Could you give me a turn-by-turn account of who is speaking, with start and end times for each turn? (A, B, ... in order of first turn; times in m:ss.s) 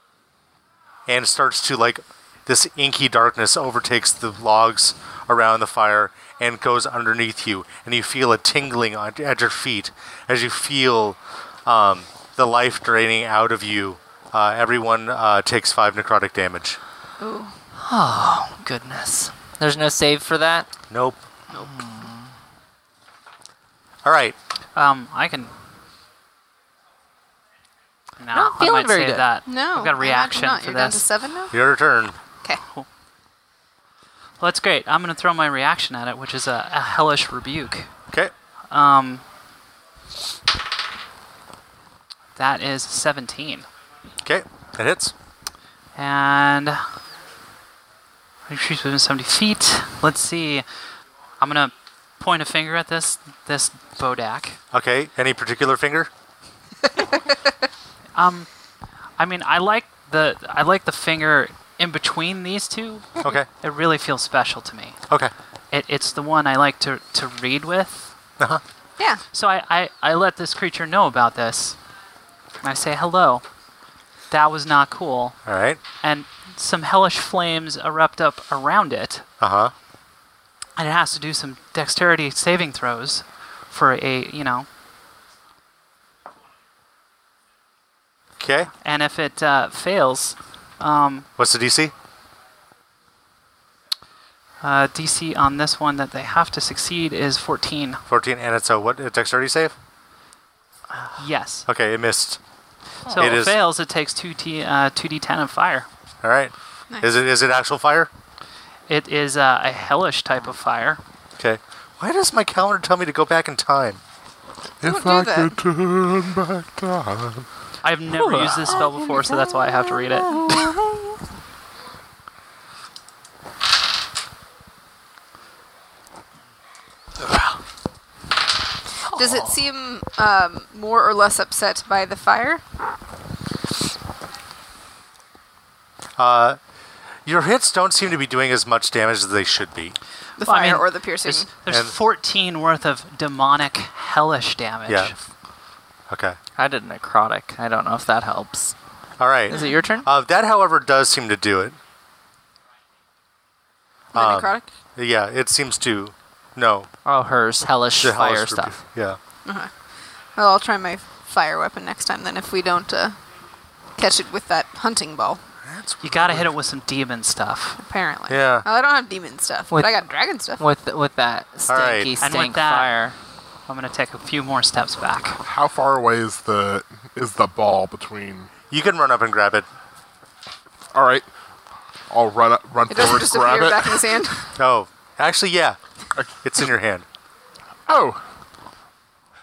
0:01.1-0:16.8 A
0:17.2-0:17.6 B
0:17.8-0:20.7 C
0:20.9-0:21.2 A
0:21.6-0:22.3 C
0:24.0-0:24.4 A
0:24.8-0:25.5 D
0:28.2-0:31.1 D
0:28.3-0:29.3 C
0:29.4-0:31.6 B
0:31.5-0:32.2 A
0:34.4-0:37.9 D
0:38.7-0:39.2 D
0:42.4-0:43.7 D
0:44.2-0:45.1 A
0:46.0-0:46.8 D
0:48.5-0:50.7 D
0:51.4-0:54.6 D
0:54.7-0:56.1 A
0:58.2-0:58.5 D
0:59.2-1:05.0 D
1:05.7-1:08.1 D
1:09.3-1:11.8 D
1:12.6-1:13.4 D
1:14.3-1:15.4 D
1:15.5-1:15.8 A
1:16.0-1:19.2 D
1:19.4-1:19.7 A
1:20.8-1:24.7 D
1:28.4-1:28.7 A
1:28.8-1:31.3 D
1:31.4-1:31.9 A
1:34.6-1:38.0 D
1:38.1-1:39.8 A
1:41.2-1:41.7 D
1:41.7-1:42.4 A
1:43.1-1:45.9 D
1:43.2-1:43.6 A
1:46.2-1:48.1 A
1:48.9-1:51.0 D
1:51.4-1:54.0 A
1:54.8-1:57.5 E
1:54.8-1:55.6 B
1:57.8-2:00.7 D
1:58.2-1:58.9 C
2:00.0-2:00.7 B
2:00.3-2:01.0 C
2:09.1-2:12.6 B
2:16.2-2:16.6 A
2:17.3-2:20.0 A
2:20.4-2:21.5 B
2:20.4-2:25.2 D
2:21.7-2:22.0 A
2:24.9-2:25.1 A
2:26.1-2:26.4 A
2:26.6-2:28.7 C
2:29.2-2:31.8 A
2:29.5-2:30.1 C
2:34.1-2:34.7 B
2:34.2-2:36.9 A
2:37.0-2:38.8 C
2:38.0-2:39.2 A
2:39.4-2:39.7 B
2:40.4-2:43.2 B
2:44.0-2:45.4 B
2:45.6-2:46.5 A
2:46.0-2:47.8 D
2:47.8-2:50.6 B
2:48.3-2:48.7 A
2:50.6-2:53.2 C
2:51.7-2:52.1 A
2:52.2-2:53.1 D
2:53.7-2:55.4 D
2:55.4-2:58.5 E
2:58.7-2:59.7 A
3:00.9-3:01.3 E
3:02.1-3:04.1 E
3:02.9-3:04.5 B
3:04.6-3:05.8 A
3:06.4-3:07.1 A
3:07.9-3:08.3 E